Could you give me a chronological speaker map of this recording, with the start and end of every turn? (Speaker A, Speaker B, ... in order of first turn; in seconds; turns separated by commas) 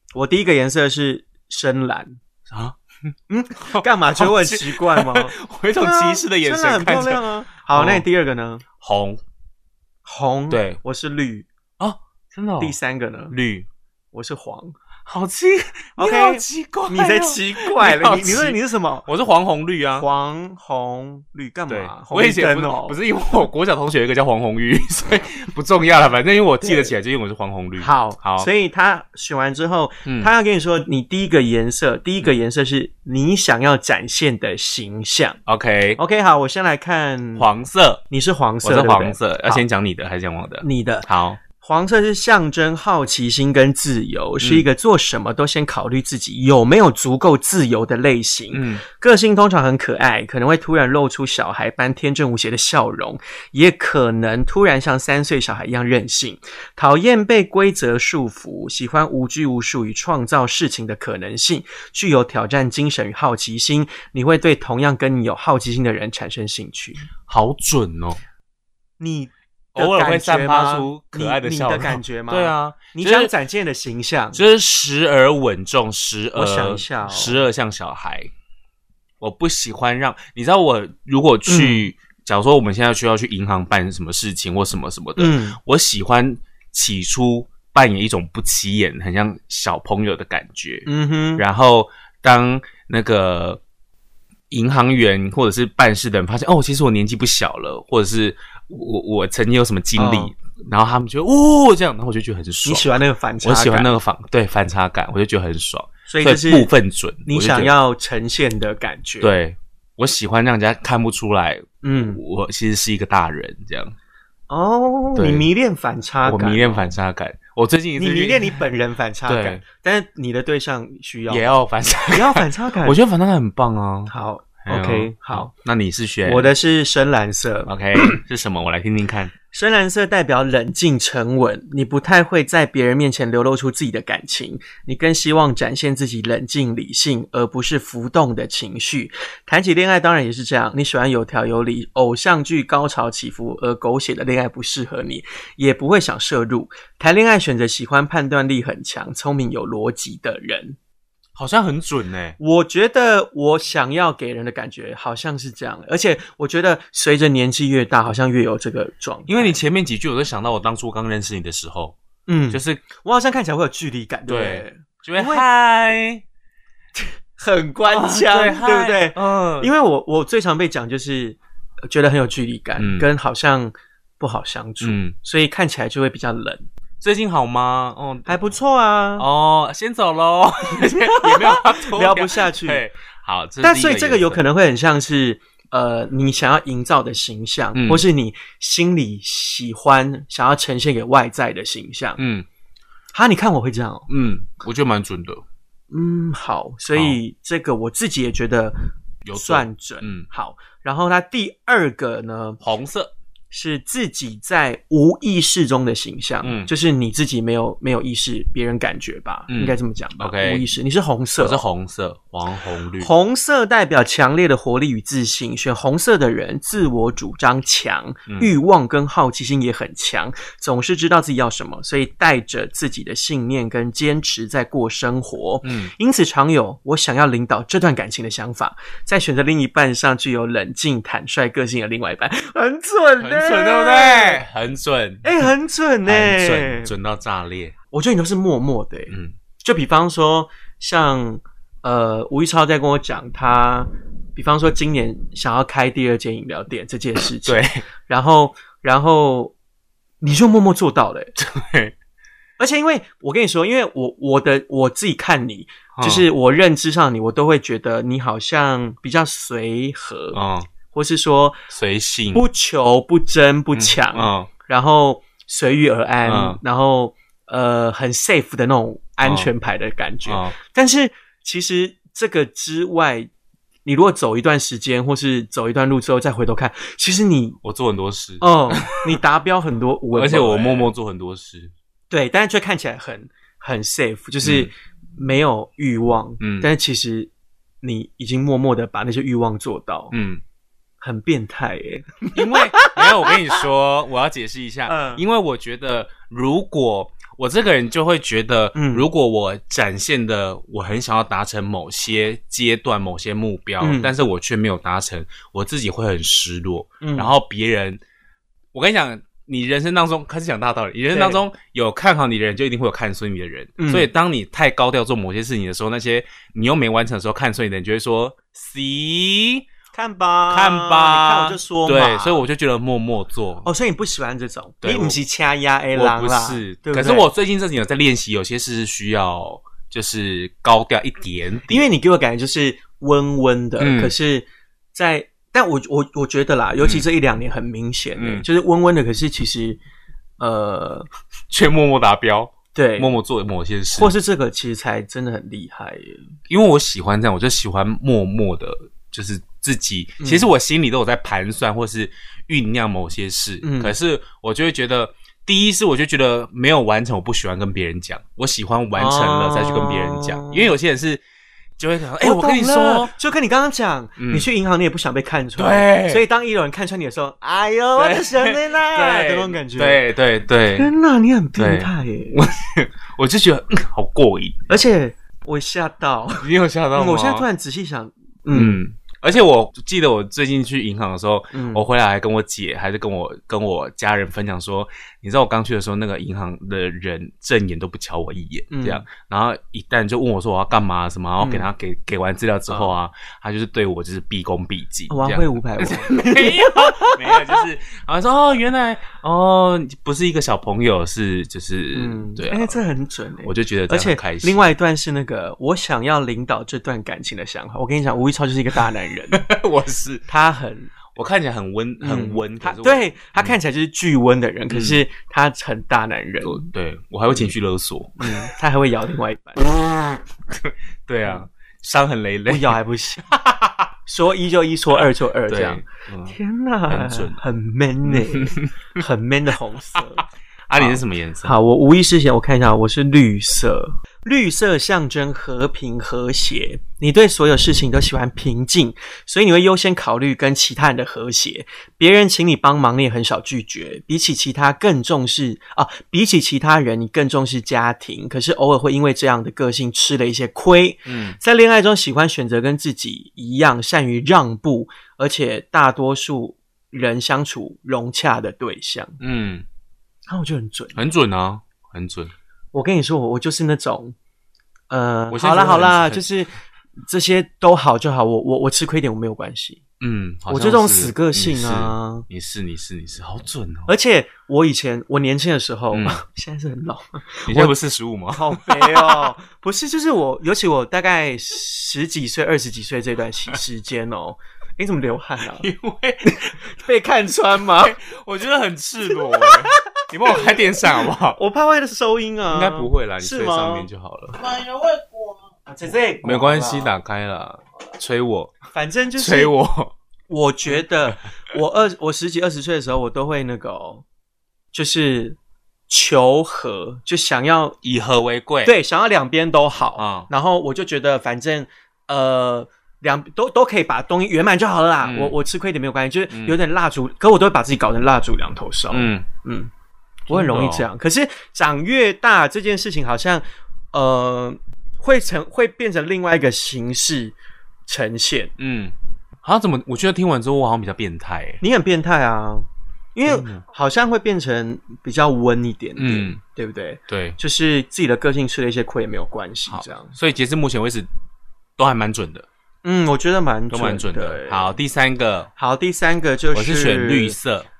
Speaker A: 0.1-2.2, Speaker B: 2.5-2.8, Speaker A: 3.3-8.6, Speaker B: 3.6-8.0, Speaker B: 8.8-9.2, Speaker A: 10.0-11.5, Speaker B: 10.5-10.8, Speaker B: 11.8-12.8, Speaker A: 12.6-13.3, Speaker B: 13.3-13.7, Speaker A: 14.1-14.7, Speaker B: 15.0-20.1, Speaker A: 16.0-19.1, Speaker A: 19.9-23.0, Speaker B: 21.7-28.5, Speaker A: 26.6-26.9, Speaker A: 27.8-35.4, Speaker B: 30.1-30.3, Speaker B: 35.5-36.0, Speaker A: 36.0-37.5, Speaker B: 37.4-38.0, Speaker A: 38.1-39.6, Speaker B: 38.6-41.4, Speaker A: 40.6-67.1, Speaker B: 44.4-44.6, Speaker B: 48.5-48.8, Speaker B: 67.3-68.2, Speaker A: 69.0-74.4, Speaker B: 69.7-73.3, Speaker B: 74.3-78.3, Speaker A: 76.3-77.4, Speaker B: 79.2-93.6, Speaker A: 81.5-81.9, Speaker A: 85.2-85.6, Speaker A: 90.8-91.4, Speaker B: 94.5-102.9, Speaker A: 100.0-100.3, Speaker A: 102.6-103.9, Speaker B: 103.4-107.7, Speaker A: 106.1-106.7, Speaker A: 107.2-109.3, Speaker B: 109.2-113.9, Speaker A: 111.8-112.2, Speaker A: 114.5-116.9, Speaker B: 115.1-115.5, Speaker B: 116.2-118.6, Speaker A: 118.0-121.5, Speaker B: 119.3-119.6, Speaker B: 121.3-124.1, Speaker A: 122.1-123.0, Speaker A: 124.1-125.5, Speaker B: 124.6-126.5, Speaker A: 126.2-128.2, Speaker B: 127.7-129.3, Speaker A: 129.5-150.8, Speaker B: 151.3-152.4, Speaker A: 152.4-159.6, Speaker B: 159.3-162.0, Speaker A: 162.3-165.4, Speaker B: 162.5-162.8, Speaker B: 164.3-166.2, Speaker A: 166.9-176.6, Speaker B: 167.8-169.7, Speaker B: 172.8-173.1, Speaker B: 174.8-175.1, Speaker B: 177.0-178.4, Speaker A: 178.3-179.3, Speaker B: 179.2-184.4, Speaker A: 180.8-182.8, Speaker A: 183.6-192.2, Speaker B: 187.7-188.0, Speaker B: 192.2-192.4, Speaker A: 193.1-194.1, Speaker B: 194.1-195.4, Speaker A: 195.9-198.8, Speaker B: 196.9-197.2, Speaker B: 199.2-200.2, Speaker A: 199.3-202.6, Speaker B: 202.6-203.1, Speaker A: 203.5-211.6, Speaker B: 206.4-206.7, Speaker B: 209.5-210.7, Speaker B: 211.4-213.1, Speaker A: 213.0-234.4, Speaker B: 225.6-225.9, Speaker B: 233.2-235.3, Speaker A: 235.2-236.9, Speaker B: 236.0-237.7, Speaker A: 237.9-249.5, Speaker B: 239.1-239.3, Speaker B: 247.4-247.8, Speaker A: 250.2-251.3, Speaker B: 251.4-251.9, Speaker A: 252.6-261.6, Speaker B: 255.9-256.2, Speaker B: 260.3-260.7, Speaker B: 261.7-262.4, Speaker A: 262.3-273.3, Speaker B: 263.7-264.5, Speaker B: 266.2-266.6, Speaker B: 269.2-269.5, Speaker B: 270.2-270.6, Speaker A: 273.8-277.6, Speaker B: 277.6-279.2, Speaker A: 278.4-280.9, Speaker B: 280.1-281.7, Speaker A: 282.1-287.3, Speaker B: 284.4-284.7, Speaker B: 286.4-286.7, Speaker A: 287.8-290.1, Speaker B: 290.1-290.4, Speaker A: 291.0-293.3, Speaker B: 292.3-308.0, Speaker A: 294.9-295.2, Speaker A: 298.7-299.0, Speaker A: 303.8-304.1, Speaker A: 307.0-307.3, Speaker B: 308.7-319.7, Speaker A: 311.1-311.4, Speaker A: 313.8-314.1, Speaker A: 319.9-322.4, Speaker B: 320.5-323.7, Speaker A: 323.6-327.3, Speaker B: 324.8-325.2, Speaker B: 325.9-331.9, Speaker A: 331.7-339.8, Speaker B: 333.8-334.1, Speaker B: 336.8-337.1, Speaker B: 338.1-338.4, Speaker A: 340.4-341.1, Speaker B: 341.5-344.1, Speaker A: 342.7-343.2, Speaker A: 343.9-346.3, Speaker B: 346.5-361.2, Speaker A: 350.2-350.5, Speaker A: 353.6-353.9, Speaker A: 358.9-360.7, Speaker B: 361.8-363.1, Speaker A: 362.2-370.0, Speaker B: 364.2-364.5, Speaker B: 365.6-366.2, Speaker B: 367.9-370.9, Speaker A: 370.7-372.4, Speaker B: 371.6-374.8, Speaker A: 374.7-378.8, Speaker B: 376.4-377.5, Speaker B: 378.5-402.8, Speaker A: 381.5-381.8, Speaker A: 388.7-389.1, Speaker A: 391.4-391.7, Speaker A: 395.1-397.4, Speaker A: 401.9-409.4, Speaker B: 403.4-404.6, Speaker B: 409.3-410.2, Speaker A: 410.3-410.9, Speaker B: 411.1-413.6, Speaker A: 412.0-416.7, Speaker B: 414.7-415.0, Speaker B: 416.4-418.5, Speaker A: 418.2-419.7, Speaker B: 419.9-422.8, Speaker A: 422.5-423.3, Speaker B: 423.3-423.9, Speaker A: 424.1-430.2, Speaker B: 425.5-427.4, Speaker B: 428.1-428.7, Speaker B: 430.7-431.5, Speaker A: 430.8-459.2, Speaker B: 451.1-451.4, Speaker B: 459.2-459.6, Speaker A: 460.3-461.0, Speaker B: 460.9-462.3, Speaker A: 462.7-464.1, Speaker A: 464.9-466.5, Speaker B: 465.3-466.2, Speaker A: 467.1-469.8, Speaker B: 470.0-473.9, Speaker A: 470.5-472.2, Speaker A: 473.9-477.8, Speaker B: 475.9-476.2, Speaker B: 477.5-479.3, Speaker A: 478.3-485.7, Speaker B: 485.6-486.6, Speaker A: 486.2-488.0, Speaker B: 487.8-491.4, Speaker A: 489.1-493.9, Speaker B: 492.5-494.4, Speaker A: 494.6-494.9, Speaker A: 495.6-496.9, Speaker B: 496.2-498.6, Speaker A: 498.7-499.5, Speaker B: 499.1-499.9, Speaker A: 500.3-504.0, Speaker B: 500.7-501.1, Speaker A: 504.7-505.4, Speaker A: 505.9-507.8, Speaker B: 507.8-508.7, Speaker A: 508.6-519.7, Speaker B: 510.0-510.3, Speaker B: 515.0-515.4, Speaker B: 516.3-516.6, Speaker B: 518.9-519.3, Speaker B: 520.3-520.9, Speaker A: 520.3-527.4, Speaker A: 527.9-528.5, Speaker B: 528.6-531.6, Speaker A: 531.6-540.1, Speaker B: 533.2-533.6, Speaker B: 536.0-536.4, Speaker B: 537.1-537.4, Speaker B: 539.7-541.1, Speaker B: 541.8-542.5, Speaker A: 542.8-544.8, Speaker B: 543.7-545.5, Speaker A: 545.5-547.4, Speaker B: 546.5-547.7